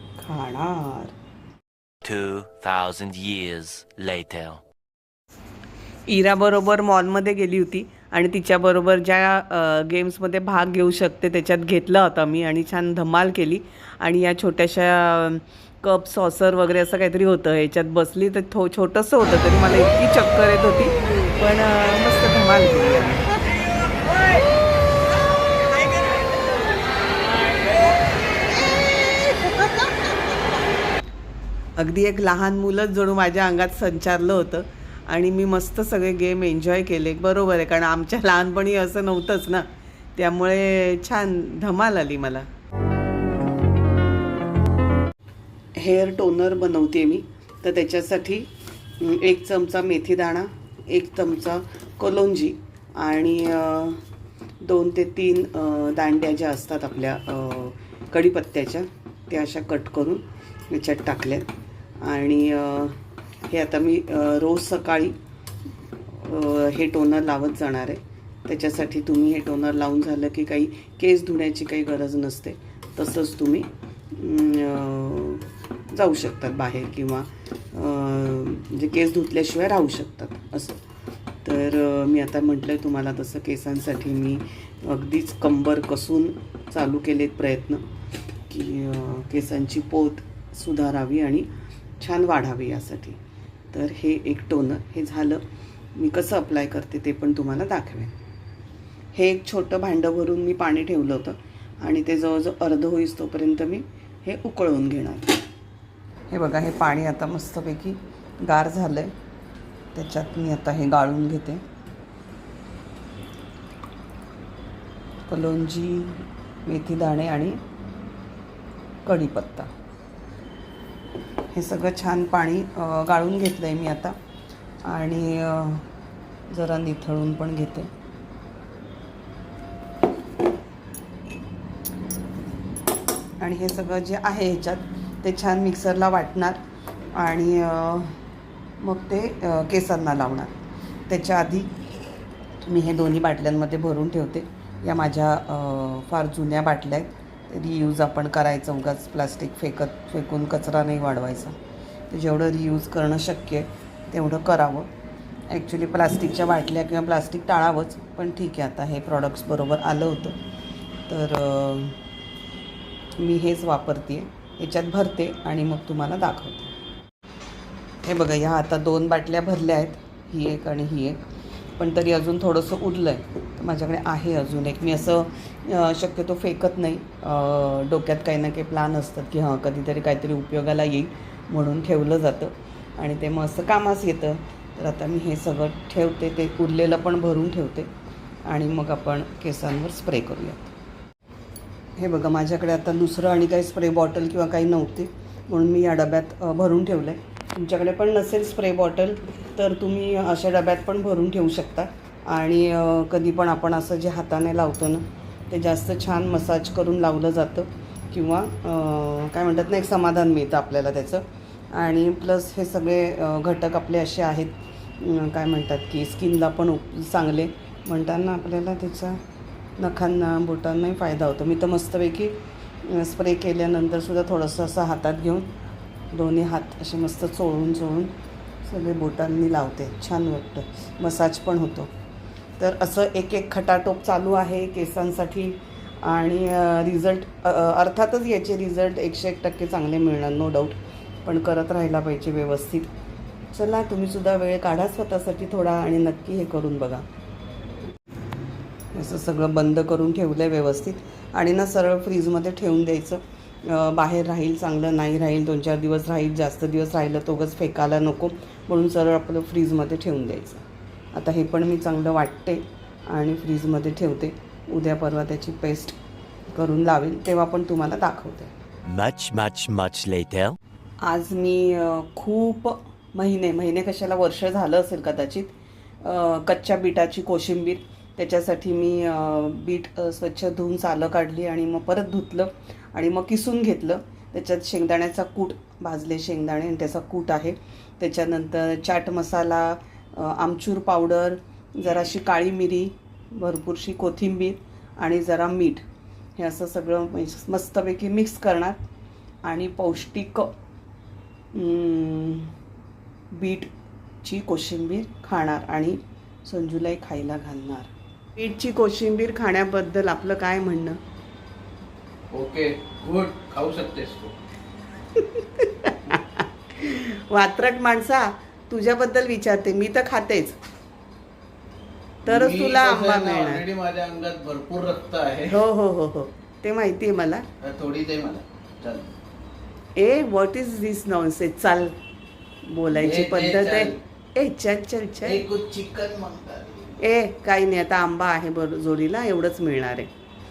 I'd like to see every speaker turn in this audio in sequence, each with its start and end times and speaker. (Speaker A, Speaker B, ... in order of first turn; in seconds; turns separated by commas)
Speaker A: 0.2-1.1, Speaker B: 2.0-4.6, Speaker A: 6.1-23.3, Speaker A: 25.8-26.3, Speaker A: 29.1-30.0, Speaker A: 31.8-42.5, Speaker A: 45.8-54.0, Speaker A: 54.6-61.5, Speaker A: 62.0-63.0, Speaker A: 63.5-65.1, Speaker A: 66.1-80.8, Speaker A: 81.4-87.8, Speaker A: 88.5-91.5, Speaker A: 92.0-93.2, Speaker A: 93.7-95.4, Speaker A: 95.9-98.1, Speaker A: 99.1-105.3, Speaker A: 106.3-109.1, Speaker A: 109.9-111.6, Speaker A: 115.3-117.6, Speaker A: 119.0-119.7, Speaker A: 121.5-124.2, Speaker A: 124.8-125.8, Speaker A: 126.5-127.9, Speaker A: 133.4-136.6, Speaker A: 137.1-138.2, Speaker A: 138.8-140.5, Speaker A: 141.1-141.7, Speaker A: 142.6-151.5, Speaker A: 152.1-154.9, Speaker A: 155.5-160.4, Speaker A: 161.1-162.0, Speaker A: 163.2-166.7, Speaker A: 168.0-171.2, Speaker A: 171.8-187.9, Speaker A: 188.4-190.7, Speaker A: 192.0-219.2, Speaker A: 219.8-225.5, Speaker A: 226.1-231.9, Speaker A: 232.6-242.9, Speaker A: 243.5-247.0, Speaker A: 248.9-265.9, Speaker A: 266.5-268.5, Speaker B: 268.9-270.6, Speaker A: 271.0-295.8, Speaker A: 296.4-298.8, Speaker A: 299.4-300.5, Speaker A: 301.5-302.5, Speaker A: 303.3-303.7, Speaker A: 304.2-311.0, Speaker C: 312.3-314.3, Speaker A: 315.1-320.6, Speaker A: 322.2-323.6, Speaker C: 322.3-325.6, Speaker A: 325.5-327.4, Speaker C: 327.6-329.1, Speaker A: 329.9-331.9, Speaker A: 332.6-335.4, Speaker C: 332.9-333.9, Speaker C: 335.2-337.0, Speaker A: 337.0-340.1